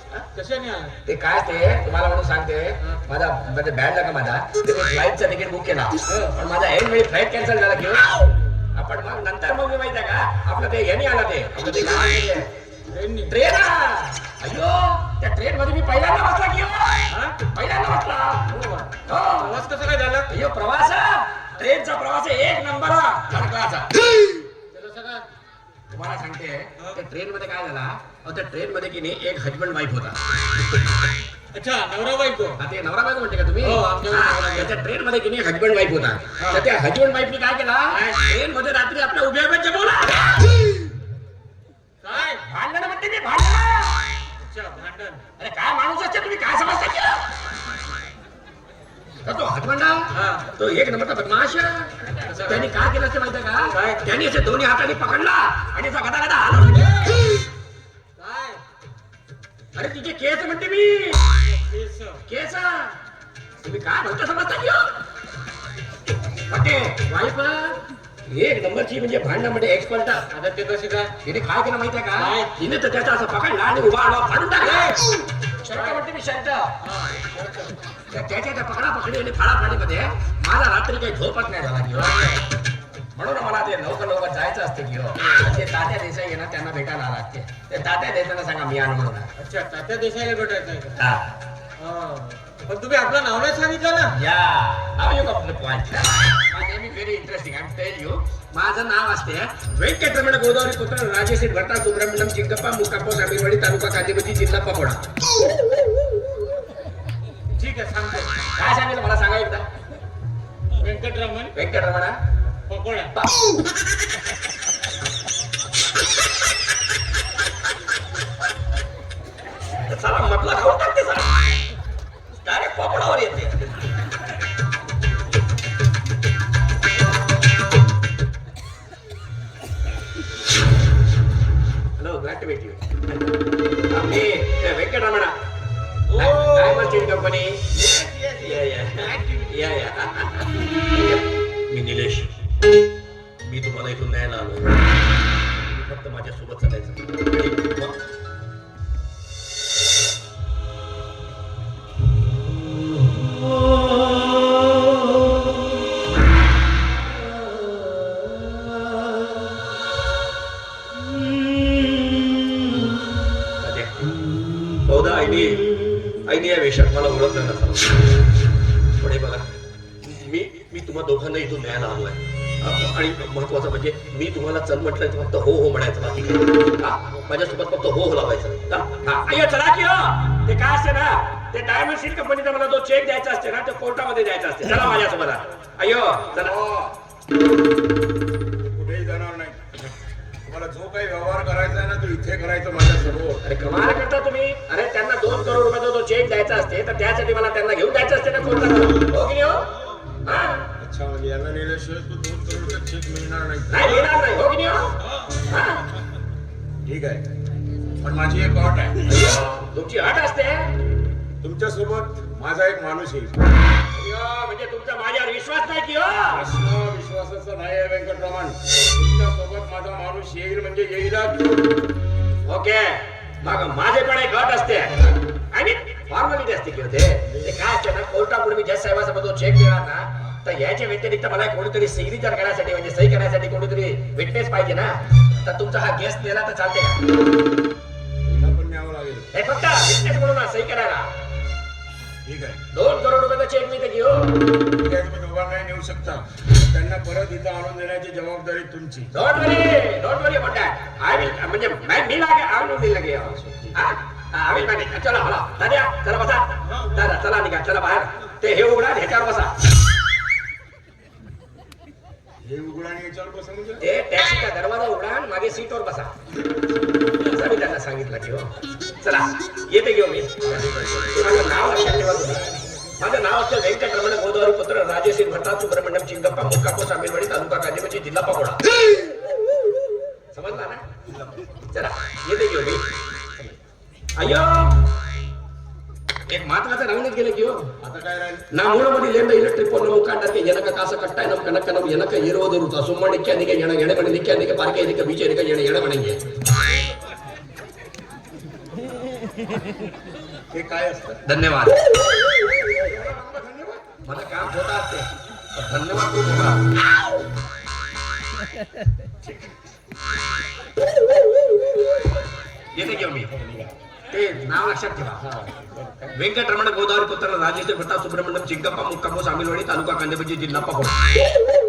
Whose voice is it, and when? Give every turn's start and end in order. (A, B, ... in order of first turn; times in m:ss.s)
0:00.3-0:01.0 A
0:01.1-0:12.5 B
0:06.1-0:06.4 A
0:12.9-0:13.4 A
0:13.3-0:18.5 B
0:17.1-0:17.4 A
0:18.5-0:20.3 A
0:19.1-0:19.6 B
0:20.3-0:24.3 B
0:24.7-0:25.2 A
0:25.9-0:30.2 B
0:31.5-0:32.6 A
0:32.6-0:40.8 B
0:33.6-0:34.8 A
0:36.4-0:36.7 A
0:37.9-0:38.2 A
0:42.0-0:42.4 A
0:42.4-0:44.1 B
0:44.4-0:45.3 A
0:45.4-0:47.3 B
0:49.2-0:57.0 B
0:50.1-0:50.5 A
0:52.2-0:52.7 A
0:53.7-0:54.0 A
0:56.7-0:57.3 A
0:58.2-0:58.6 A
0:59.7-1:01.4 B
1:01.4-1:02.2 A
1:02.3-1:03.0 B
1:03.6-1:04.9 B
1:06.5-1:07.3 B
1:07.1-1:07.8 A
1:08.3-1:10.3 B
1:10.3-1:11.1 A
1:11.2-1:16.7 B
1:12.2-1:12.5 A
1:14.6-1:15.1 A
1:15.7-1:16.0 A
1:16.8-1:17.8 A
1:18.1-1:22.4 B
1:23.2-1:29.3 B
1:29.4-1:31.0 A
1:31.0-1:31.3 B
1:31.8-1:34.2 A
1:34.1-1:45.0 B
1:47.6-1:48.4 A
1:48.6-1:49.7 B
1:50.8-1:51.5 A
1:51.5-1:52.2 B
1:52.7-1:53.1 A
1:53.1-1:53.5 B
1:59.7-2:01.6 B
2:02.4-2:03.9 B
2:12.0-2:13.3 B
2:13.9-2:15.4 B
2:16.1-2:22.3 B
2:16.1-2:17.1 A
2:17.9-2:18.3 A
2:19.0-2:19.5 A
2:23.4-2:24.9 B
2:25.6-2:28.0 B
2:43.6-2:44.0 B
2:44.8-2:45.7 B
2:46.2-2:48.0 B
2:49.0-2:49.5 B
2:50.0-3:06.5 B
3:06.3-3:07.0 C
3:08.6-3:09.9 C
3:10.4-3:13.4 C
3:13.4-3:19.7 B
3:20.2-3:20.7 B
3:20.8-3:24.2 C
3:23.7-3:24.9 B
3:25.1-3:25.4 A
3:25.5-3:25.9 B
3:26.9-3:27.2 C
3:28.0-3:29.1 C
3:29.0-3:30.7 B
3:31.4-3:33.4 C
3:34.0-3:36.5 B
3:36.3-3:41.5 C
3:42.5-3:57.0 B
3:47.3-3:47.6 C
3:58.3-3:59.3 C
3:59.3-4:01.1 B
4:02.2-4:02.6 C
4:02.7-4:04.4 B
4:04.7-4:09.1 C
4:09.1-4:19.6 B
4:13.3-4:13.8 C
4:22.4-4:23.9 C
4:23.8-4:26.1 B
4:27.2-4:30.4 B
4:30.4-4:32.8 C
4:31.1-4:32.4 B
4:33.0-4:38.6 B
4:40.3-4:40.8 B
4:41.1-4:41.5 C
4:41.7-4:42.8 B
4:44.2-4:44.8 B
4:46.3-4:47.7 B
4:47.8-4:48.5 C
4:48.5-4:56.2 B
5:00.5-5:01.2 C
5:01.3-5:01.8 B
5:02.6-5:03.9 C
5:04.0-5:06.7 B
5:12.8-5:13.3 B
5:13.0-5:13.8 C
5:14.1-5:15.2 B
5:15.2-5:16.2 C
5:16.1-5:21.0 B